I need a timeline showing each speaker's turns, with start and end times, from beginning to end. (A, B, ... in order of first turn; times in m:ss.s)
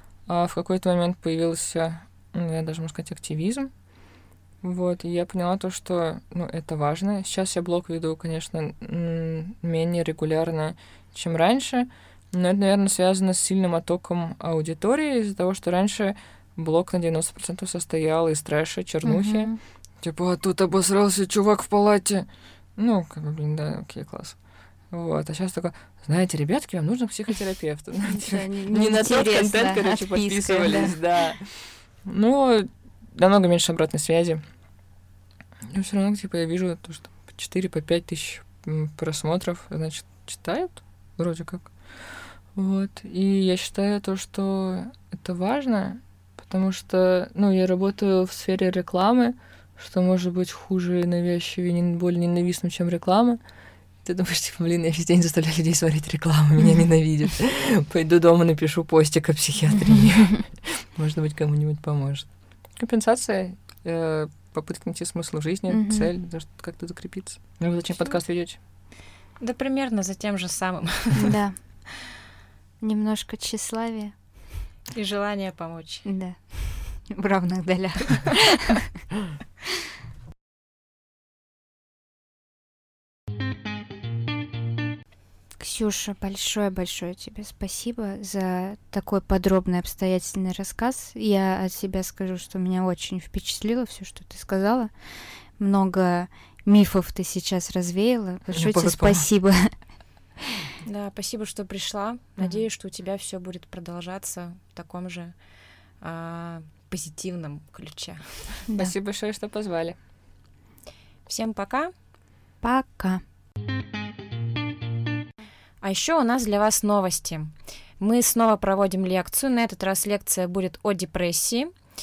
0:00.3-0:03.7 A
0:04.6-0:24.4 A
0:19.0-0:19.6 B
0:24.9-0:34.4 A
0:28.0-0:30.9 B
0:35.7-0:41.7 A
0:42.5-0:53.4 A
0:54.0-1:08.6 A
1:05.7-1:06.1 B
1:09.4-1:11.3 C
1:11.1-1:11.6 B
1:12.8-1:14.1 B
1:14.9-1:16.0 C
1:16.0-1:18.9 B
1:25.6-1:34.9 B
1:35.6-1:39.7 B
1:38.5-1:39.2 A
1:40.8-1:45.3 C
1:46.0-1:48.6 C
1:48.7-1:48.9 B
1:48.7-1:50.0 A
1:51.2-1:51.9 C
1:52.6-1:53.2 B
1:55.8-2:01.7 C